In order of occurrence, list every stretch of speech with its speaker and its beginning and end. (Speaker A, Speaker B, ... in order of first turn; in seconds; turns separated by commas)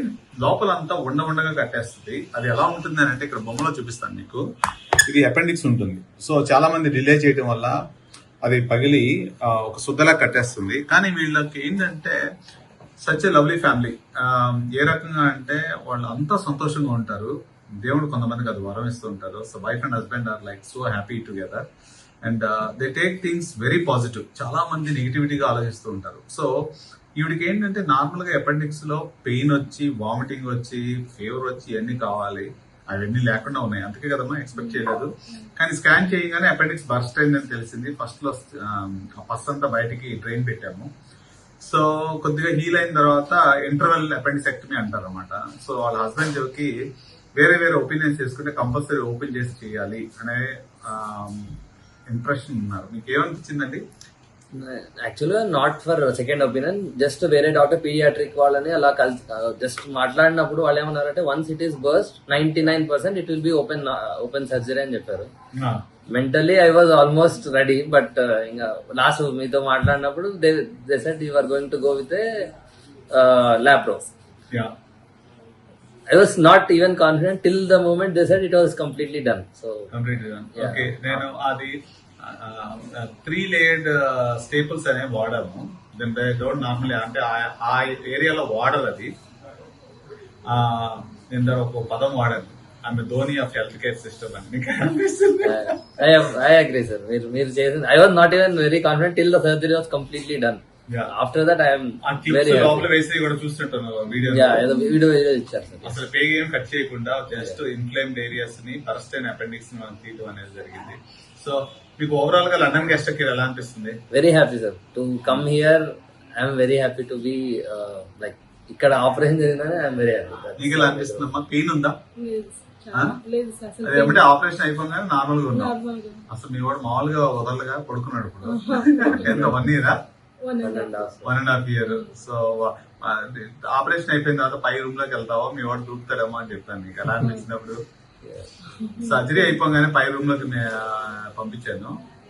Speaker A: 0.4-4.5, Speaker A: 5.1-7.8, Speaker A: 8.4-12.2, Speaker A: 13.0-21.6, Speaker A: 22.2-26.5, Speaker A: 27.2-40.9, Speaker B: 34.6-34.8, Speaker A: 41.6-46.8, Speaker A: 47.4-51.6, Speaker A: 52.1-53.8, Speaker C: 54.6-65.3, Speaker A: 65.5-65.8, Speaker C: 66.1-72.5, Speaker C: 73.1-74.1, Speaker C: 76.1-79.9, Speaker A: 79.9-89.1, Speaker C: 80.6-81.2, Speaker A: 90.5-96.1, Speaker C: 95.4-102.9, Speaker A: 102.0-104.7, Speaker C: 104.3-106.0, Speaker B: 104.7-105.0, Speaker A: 105.8-114.0, Speaker C: 114.1-121.3, Speaker A: 120.6-122.0, Speaker B: 122.2-124.3, Speaker A: 122.9-123.2, Speaker A: 123.8-125.8, Speaker B: 125.5-126.2, Speaker A: 126.3-130.0, Speaker B: 128.4-129.4, Speaker C: 129.2-129.6, Speaker B: 130.4-131.1, Speaker C: 130.6-131.4, Speaker A: 131.2-137.8, Speaker B: 131.8-132.1, Speaker B: 137.2-137.5, Speaker C: 138.2-138.6, Speaker B: 138.7-139.6, Speaker A: 139.0-142.0